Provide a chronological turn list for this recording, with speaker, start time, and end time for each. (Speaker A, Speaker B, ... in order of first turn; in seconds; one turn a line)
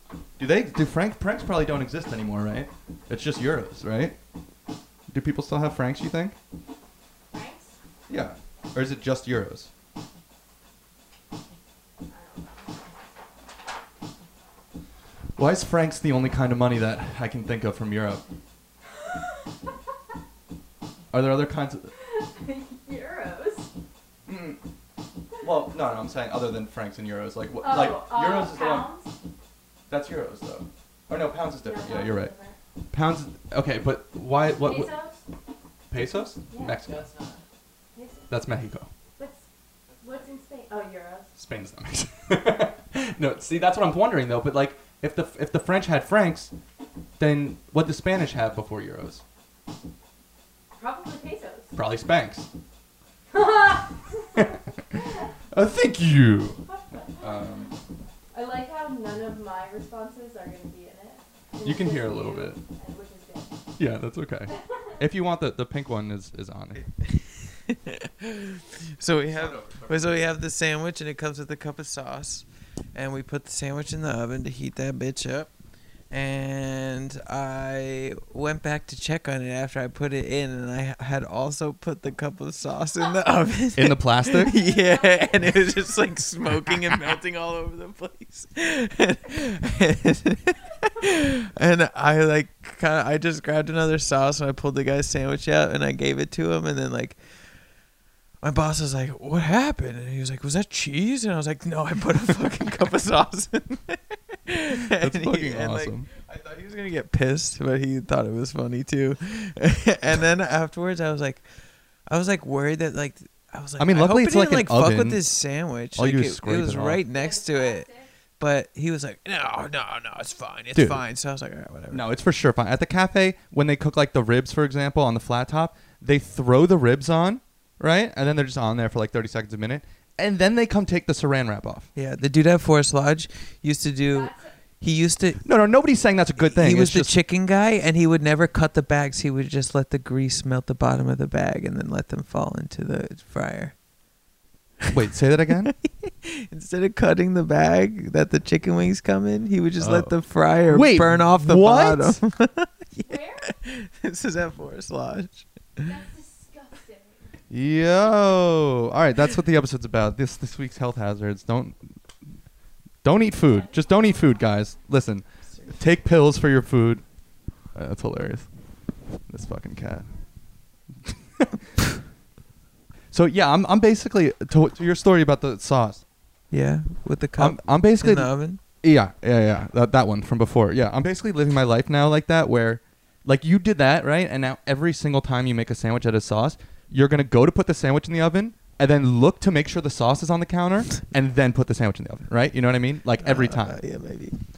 Speaker A: 0.4-4.2
Speaker A: 5.1-6.4
Speaker B: 7.3-7.7
Speaker A: 8.1-9.7
Speaker B: 12.1-12.8
Speaker A: 15.4-18.2
Speaker A: 21.1-21.9
Speaker B: 22.0-23.7
Speaker A: 24.2-24.6
Speaker A: 25.4-28.9
Speaker B: 27.6-29.1
Speaker A: 29.9-32.3
Speaker B: 31.6-32.5
Speaker A: 32.9-35.0
Speaker B: 34.6-35.2
Speaker A: 35.9-37.1
Speaker B: 36.5-36.8
Speaker C: 36.9-37.4
Speaker B: 37.9-38.3
Speaker A: 38.3-38.9
Speaker B: 39.2-39.4
Speaker B: 40.0-41.3
Speaker A: 41.4-46.5
Speaker A: 47.2-49.2
Speaker B: 50.8-51.7
Speaker A: 51.7-52.5
Speaker B: 53.3-55.3
Speaker A: 54.3-54.6
Speaker A: 55.5-56.6
Speaker B: 56.6-57.5
Speaker A: 57.2-57.7
Speaker B: 58.3-63.5
Speaker A: 61.6-62.6
Speaker A: 63.8-66.9
Speaker C: 67.0-75.5
Speaker A: 69.3-70.1
Speaker C: 76.1-97.2
Speaker A: 83.8-84.5
Speaker B: 84.5-85.2
Speaker C: 98.4-111.5
Speaker A: 104.9-106.1
Speaker C: 112.0-122.0
Speaker A: 113.8-115.2
Speaker A: 115.9-117.0
Speaker B: 117.7-118.0
Speaker A: 120.7-121.0
Speaker A: 121.9-131.9
Speaker C: 131.9-135.4
Speaker B: 134.1-134.5
Speaker A: 135.4-137.2
Speaker C: 136.4-143.8
Speaker A: 144.9-145.7
Speaker C: 145.7-155.9
Speaker A: 149.8-150.2
Speaker A: 150.7-152.2
Speaker B: 153.1-153.5
Speaker B: 155.8-157.2
Speaker A: 157.5-161.8
Speaker A: 163.0-167.0
Speaker A: 167.7-168.5
Speaker A: 169.3-170.1
Speaker A: 171.1-171.6
Speaker A: 173.1-176.0
Speaker C: 176.5-178.6
Speaker A: 177.4-193.8
Speaker C: 193.2-194.3